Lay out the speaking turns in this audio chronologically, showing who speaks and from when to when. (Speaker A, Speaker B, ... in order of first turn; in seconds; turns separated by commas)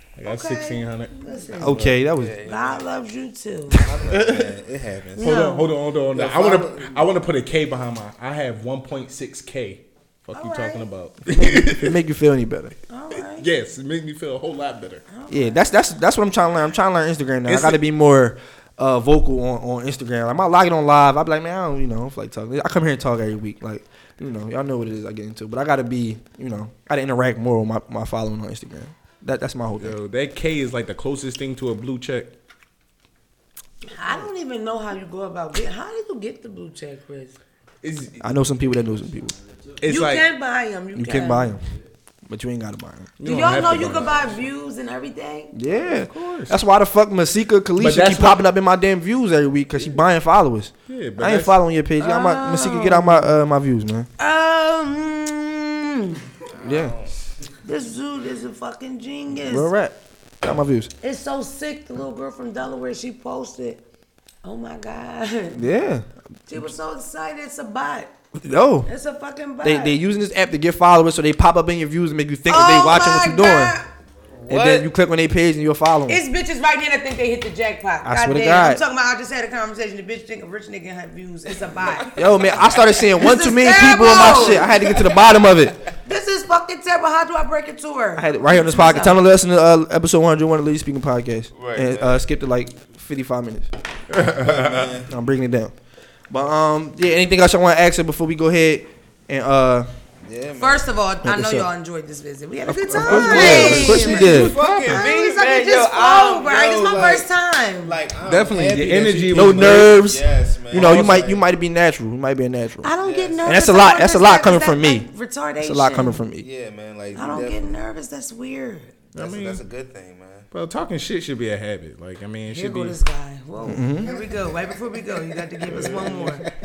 Speaker A: 0.2-1.9, Speaker B: 0.3-1.9, Speaker C: 1.6-2.4, Speaker D: 2.1-2.9, Speaker B: 2.4-3.8, Speaker D: 3.8-5.5, Speaker A: 4.1-4.5, Speaker B: 5.2-5.7, Speaker A: 5.2-12.0, Speaker D: 6.1-7.0, Speaker B: 10.3-10.8, Speaker C: 11.3-12.8, Speaker B: 12.9-13.5, Speaker A: 13.1-15.1, Speaker B: 15.1-15.7, Speaker C: 15.3-30.0, Speaker A: 17.5-17.8, Speaker A: 29.8-32.3, Speaker B: 33.9-37.4, Speaker A: 37.8-38.4, Speaker C: 38.2-39.4, Speaker A: 39.8-40.3, Speaker B: 39.9-41.6, Speaker C: 40.9-41.6, Speaker C: 42.3-43.1, Speaker A: 43.2-44.4, Speaker B: 43.2-45.5, Speaker C: 45.5-54.1, Speaker A: 45.7-46.6, Speaker A: 47.8-48.4, Speaker A: 50.9-51.6, Speaker B: 52.0-53.3, Speaker B: 54.2-56.2, Speaker D: 56.5-57.2, Speaker C: 56.6-57.0, Speaker B: 57.6-59.7, Speaker C: 59.5-60.9, Speaker B: 61.0-63.8, Speaker B: 64.4-65.6, Speaker C: 65.5-66.1, Speaker B: 66.5-68.1, Speaker C: 68.4-68.9, Speaker B: 68.9-70.0, Speaker C: 69.6-73.8, Speaker B: 72.5-73.9, Speaker D: 74.5-74.9, Speaker C: 74.5-76.2, Speaker B: 76.1-82.2, Speaker C: 78.0-78.8, Speaker D: 81.9-83.1, Speaker C: 82.2-85.8, Speaker B: 83.2-84.7, Speaker D: 84.1-85.2, Speaker B: 86.1-89.2, Speaker C: 88.2-93.7, Speaker D: 91.5-92.2, Speaker A: 94.1-95.0, Speaker D: 94.4-95.1, Speaker C: 95.1-95.7, Speaker C: 96.3-99.9, Speaker D: 100.2-100.8, Speaker B: 100.6-108.0, Speaker C: 101.2-101.7, Speaker C: 102.7-104.5, Speaker D: 103.1-107.3, Speaker A: 103.2-104.9, Speaker D: 107.8-111.4, Speaker A: 108.2-110.0, Speaker C: 109.3-112.9, Speaker A: 110.7-111.4, Speaker B: 112.8-116.2, Speaker D: 113.0-113.5, Speaker C: 113.5-115.1, Speaker C: 115.6-116.5, Speaker D: 116.4-117.7, Speaker B: 117.2-119.0, Speaker A: 119.1-119.6, Speaker D: 119.2-120.5, Speaker A: 120.5-123.0, Speaker B: 122.5-126.5, Speaker C: 123.7-124.1, Speaker A: 125.7-126.5